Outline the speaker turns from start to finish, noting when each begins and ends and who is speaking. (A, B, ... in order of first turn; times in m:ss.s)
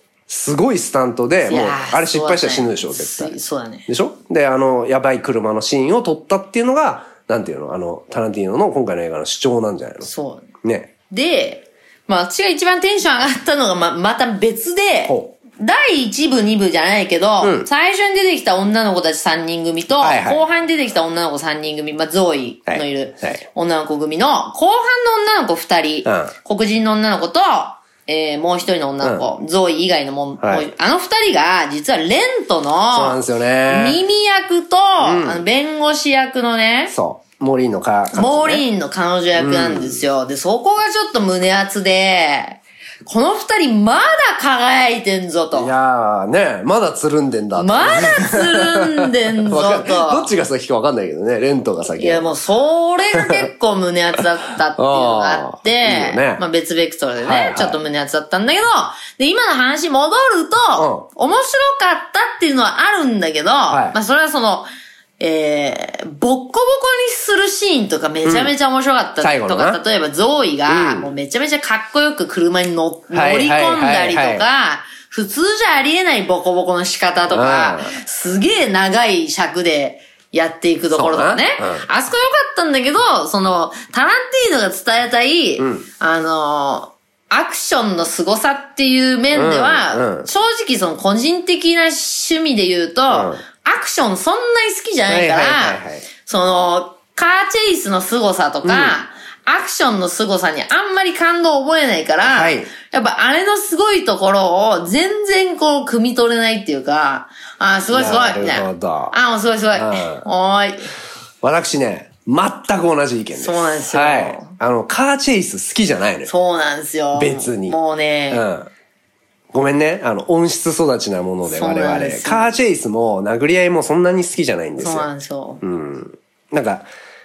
0:00.3-0:03.4 A
0:01.5-0:03.9 B
0:03.9-0:10.1 A
0:10.0-0:10.5 B
0:10.6-0:10.9 A
0:11.1-0:36.9 B
0:15.1-0:15.3 A
0:17.4-0:17.7 A
0:20.0-0:20.4 A
0:22.7-0:23.4 A
0:26.0-0:26.3 A
0:30.4-0:30.7 A
0:32.9-0:34.0 A
0:35.0-0:35.4 A
0:36.9-0:38.6 A
0:38.1-0:45.7 B
0:39.4-0:40.0 A
0:45.5-0:52.3 A
0:47.6-0:50.3 B
0:52.0-1:50.9 B
0:53.2-0:53.5 A
0:54.8-0:56.4 A
0:57.2-0:57.8 A
1:00.8-1:01.1 A
1:03.7-1:04.0 A
1:08.2-1:08.5 A
1:09.2-1:09.8 A
1:10.7-1:11.1 A
1:13.1-1:14.4 A
1:17.3-1:18.0 A
1:20.9-1:21.9 A
1:25.6-1:25.9 A
1:29.3-1:30.3 A
1:33.1-1:33.4 A
1:35.1-1:36.1 A
1:38.6-1:39.0 A
1:42.2-1:42.7 A
1:47.9-1:49.2 A
1:49.7-1:50.3 A
1:51.4-1:56.3 A
1:53.4-1:54.5 B
1:56.3-1:58.4 B
1:57.2-1:57.8 A
1:58.3-1:58.7 A
1:59.5-2:05.1 A
2:01.5-2:02.5 B
2:04.8-2:05.6 B
2:05.6-2:06.9 A